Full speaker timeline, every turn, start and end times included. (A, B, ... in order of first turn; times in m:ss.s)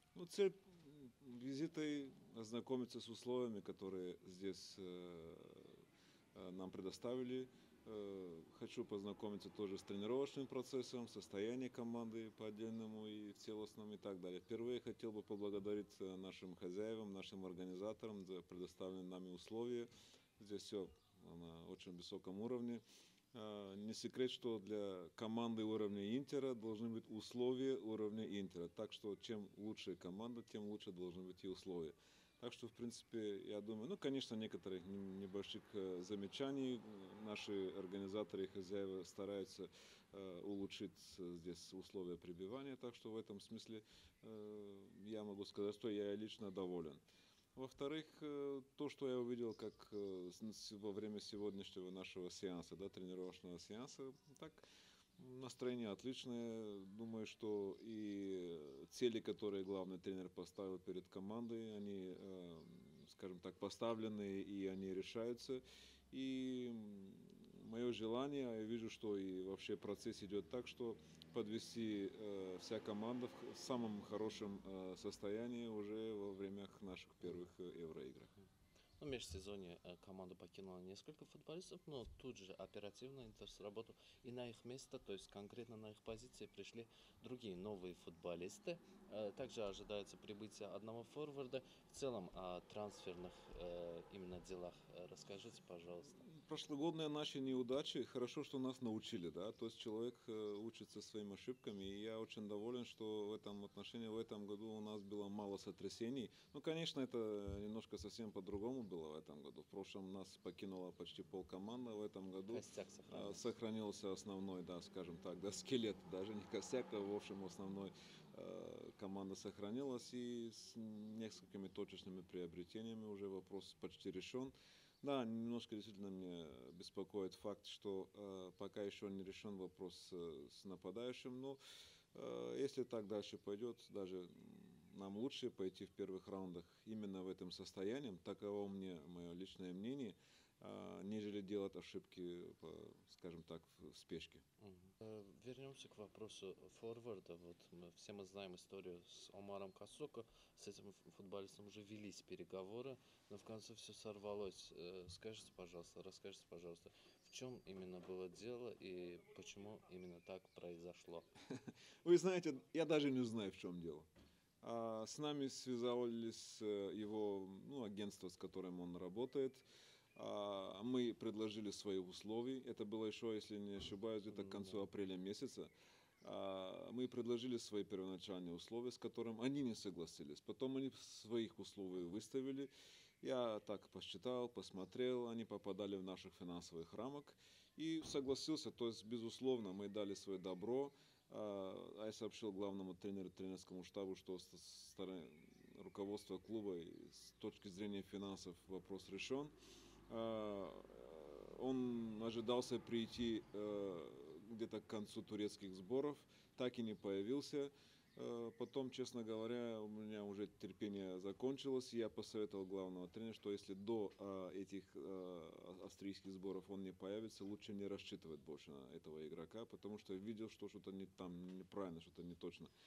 0:00.2-0:05.8 A
0:06.4-0:22.8 A
0:23.3-0:47.0 A
0:47.6-0:54.6 A
0:55.2-1:18.3 A
1:17.2-1:17.5 B
1:19.0-1:36.2 B
1:36.2-2:11.6 A
1:52.5-1:53.5 B
2:12.1-2:24.4 A
2:24.6-2:41.3 B
2:41.5-2:44.1 A
2:44.6-2:49.6 A
2:50.2-2:55.7 A
2:54.3-2:54.9 B
2:56.2-3:02.7 A
3:03.2-3:19.5 A
3:20.1-3:42.7 A